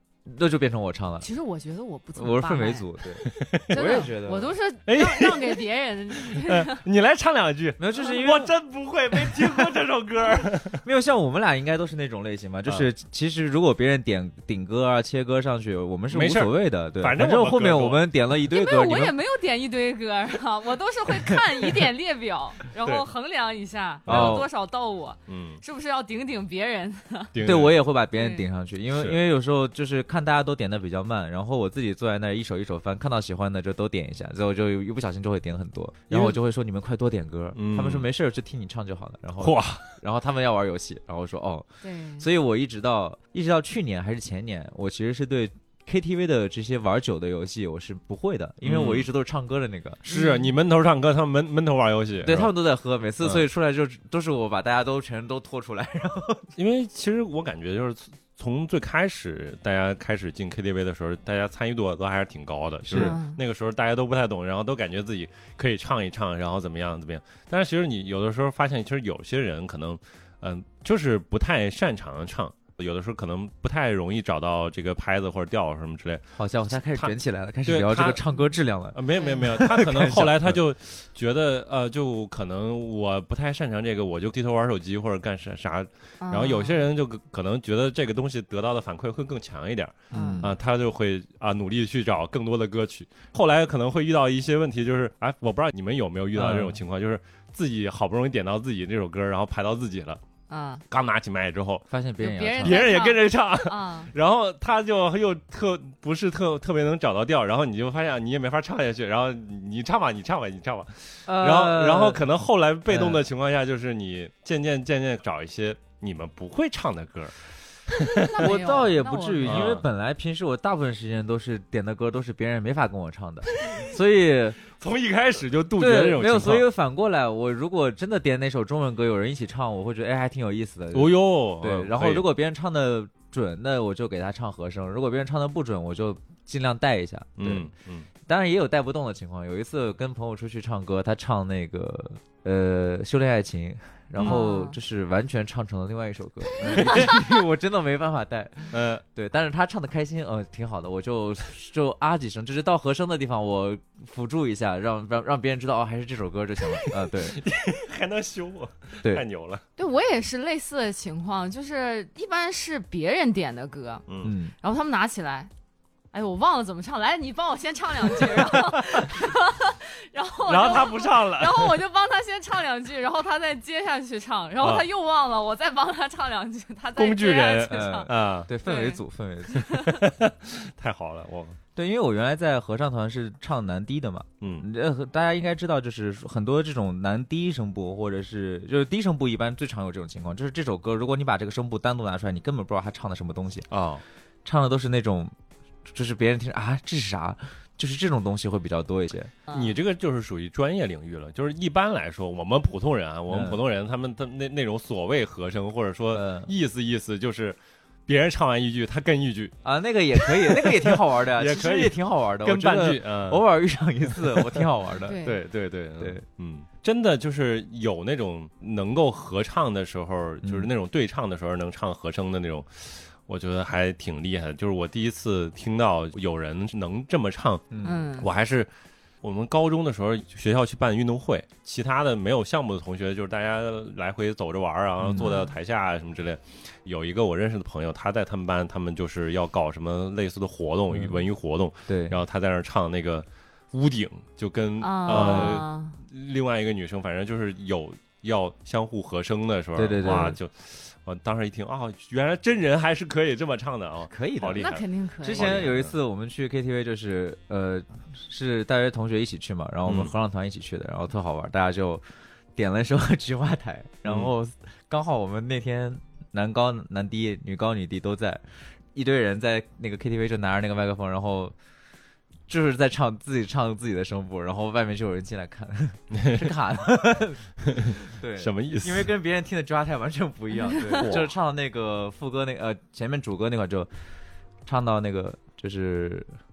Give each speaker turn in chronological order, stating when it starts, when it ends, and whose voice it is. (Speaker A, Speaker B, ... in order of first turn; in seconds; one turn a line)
Speaker A: 0.2-1.3
Speaker B: 1.2-2.9
Speaker A: 2.2-4.5
Speaker C: 3.3-3.8
Speaker B: 3.7-6.8
Speaker C: 4.9-5.6
Speaker C: 6.2-10.8
Speaker A: 7.8-8.6
Speaker A: 9.1-19.2
Speaker C: 16.1-18.1
Speaker B: 18.5-27.3
Speaker C: 24.1-24.4
Speaker A: 24.1-24.5
Speaker C: 25.3-25.6
Speaker C: 27.3-27.8
Speaker A: 27.4-50.3
Speaker B: 28.2-28.4
Speaker C: 28.9-29.2
Speaker C: 36.1-36.4
Speaker C: 37.5-38.1
Speaker C: 39.4-40.0
Speaker B: 41.8-42.3
Speaker C: 48.6-49.1
Speaker C: 50.1-52.5
Speaker B: 50.1-50.5
Speaker A: 52.2-56.5
Speaker C: 56.6-77.1
Speaker A: 62.8-63.2
Speaker B: 62.9-63.4
Speaker A: 76.4-80.6
Speaker C: 77.7-78.2
Speaker C: 78.9-100.2
Speaker B: 79.1-79.5
Speaker B: 86.2-86.8
Speaker B: 90.1-90.5
Speaker A: 90.1-90.5
Speaker A: 96.3-96.8
Speaker B: 100.5-100.8
Speaker C: 100.9-101.8
Speaker A: 101.9-102.8
Speaker B: 102.2-104.1
Speaker C: 102.6-118.1
Speaker A: 111.3-112.2
Speaker A: 112.9-113.2
Speaker B: 118.1-119.7
Speaker A: 118.4-124.6
Speaker C: 119.4-119.9
Speaker C: 124.7-126.7
Speaker A: 125.8-137.7
Speaker C: 130.9-132.3
Speaker C: 137.4-138.1
Speaker A: 138.3-157.4
Speaker B: 144.2-144.8
Speaker C: 146.7-147.1
Speaker B: 146.7-147.1
Speaker C: 148.7-149.0
Speaker C: 156.7-159.6
Speaker B: 159.8-164.1
Speaker C: 164.1-164.3
Speaker A: 164.2-164.5
Speaker B: 164.6-165.5
Speaker B: 166.1-178.1
Speaker C: 170.5-171.8
Speaker C: 174.6-174.9
Speaker C: 177.0-178.5
Speaker A: 177.7-179.7
Speaker B: 178.6-179.0
Speaker B: 179.5-180.0
Speaker C: 179.8-181.6
Speaker A: 181.8-193.7
Speaker C: 184.4-184.7
Speaker C: 193.7-194.0
Speaker A: 194.4-195.3
Speaker A: 195.8-199.3
Speaker C: 199.5-209.6
Speaker A: 203.3-203.6
Speaker A: 206.1-206.5
Speaker A: 209.6-215.2
Speaker C: 210.2-213.4
Speaker C: 214.1-214.7
Speaker B: 215.1-215.4
Speaker C: 215.2-228.7
Speaker A: 220.4-220.7
Speaker A: 227.7-228.0
Speaker B: 227.8-228.3
Speaker C: 229.2-255.9
Speaker A: 235.0-235.4
Speaker B: 235.2-235.5
Speaker A: 240.9-241.2
Speaker A: 241.9-242.2
Speaker B: 244.8-246.0
Speaker A: 245.1-245.6
Speaker A: 249.8-250.4
Speaker A: 254.1-262.0
Speaker B: 254.6-255.7
Speaker C: 259.9-260.1
Speaker A: 262.6-271.6
Speaker C: 264.1-264.3
Speaker A: 272.5-283.9
Speaker C: 276.1-276.5
Speaker C: 277.7-279.1
Speaker C: 281.0-281.3
Speaker A: 284.6-286.3